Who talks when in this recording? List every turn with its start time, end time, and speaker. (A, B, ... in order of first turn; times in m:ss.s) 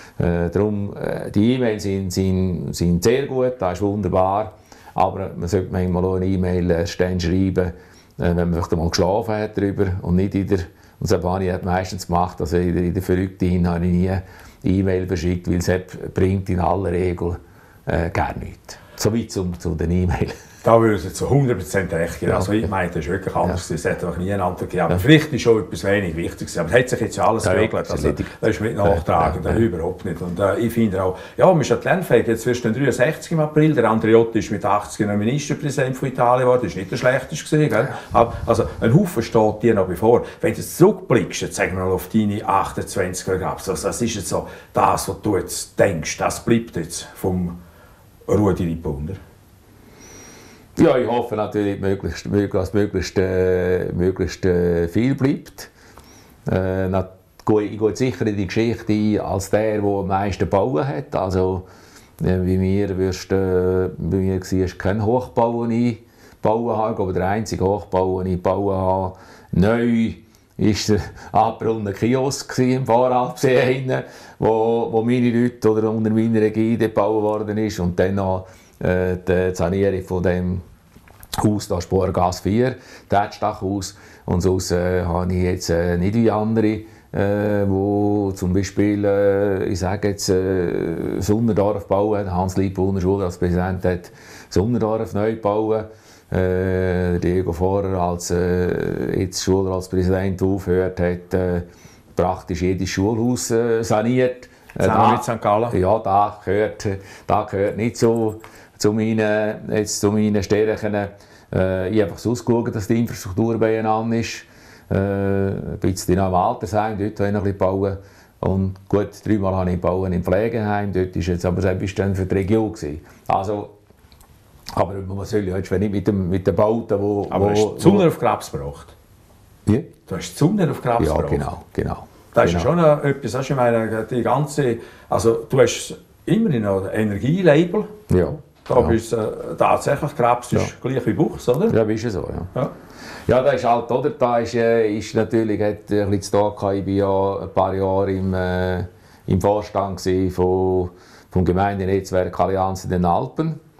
0:00.2-0:20.4 A
0:20.6-0:47.6 B
0:27.4-0:28.3 A
0:28.8-0:29.6 A
0:48.3-0:49.2 B
0:50.8-0:55.7 A
0:56.4-1:01.6 A
1:02.2-1:20.6 A
1:21.4-2:03.7 A
1:44.8-1:45.8 B
2:04.7-2:08.1 A
2:07.3-2:08.9 B
2:10.1-2:11.5 B
2:11.0-2:12.7 A
2:12.3-2:18.0 B
2:18.1-2:19.0 A
2:18.6-2:21.8 B
2:21.7-2:22.5 A
2:23.3-2:33.6 A